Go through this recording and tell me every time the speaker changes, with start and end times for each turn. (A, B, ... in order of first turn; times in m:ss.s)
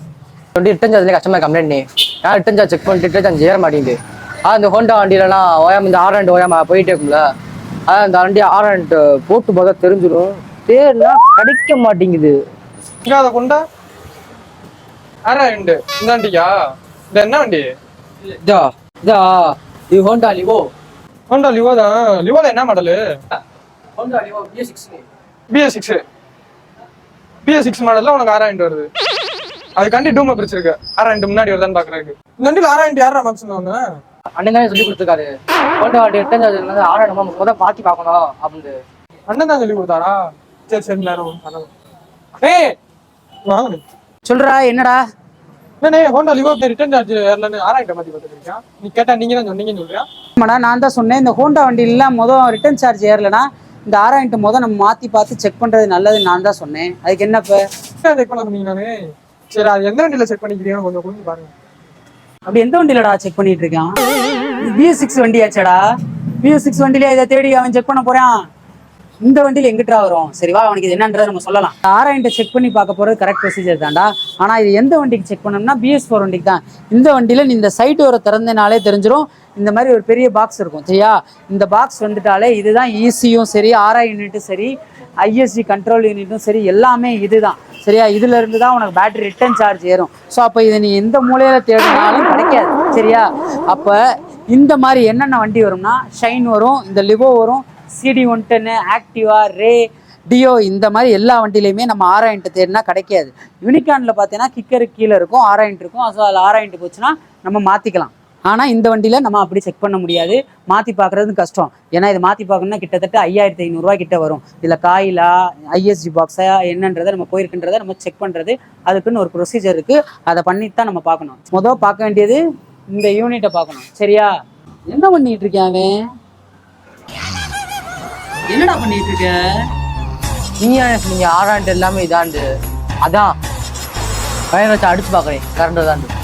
0:00.6-0:07.2 A
0:07.9-0:12.4 A
0:13.0-0:13.6 B
0:15.2-0:16.5 B
0:17.1-0:17.7 B
0:18.4-0:20.7 A
0:21.3-0:23.0 B
0:24.0-0:25.0 A
0:25.5-0:26.0 B
0:27.4-0:28.9 B
0:29.8-0:33.8 B
0:34.4-0:38.7 A
0:39.3-0:41.7 B
0:42.4-0:42.8 B
0:43.5-0:43.8 B
0:44.2-0:45.0 C
0:45.8-0:50.1 B
0:50.4-0:57.6 C
0:58.0-1:01.5 B
1:02.5-1:04.0 C
1:04.6-1:05.8 C
1:06.4-1:08.3 C
1:09.2-2:02.4 C
2:02.9-2:04.3 C
2:04.9-2:06.0 C
2:08.5-2:09.7 C
2:10.6-2:12.4 A
2:14.6-2:16.1 A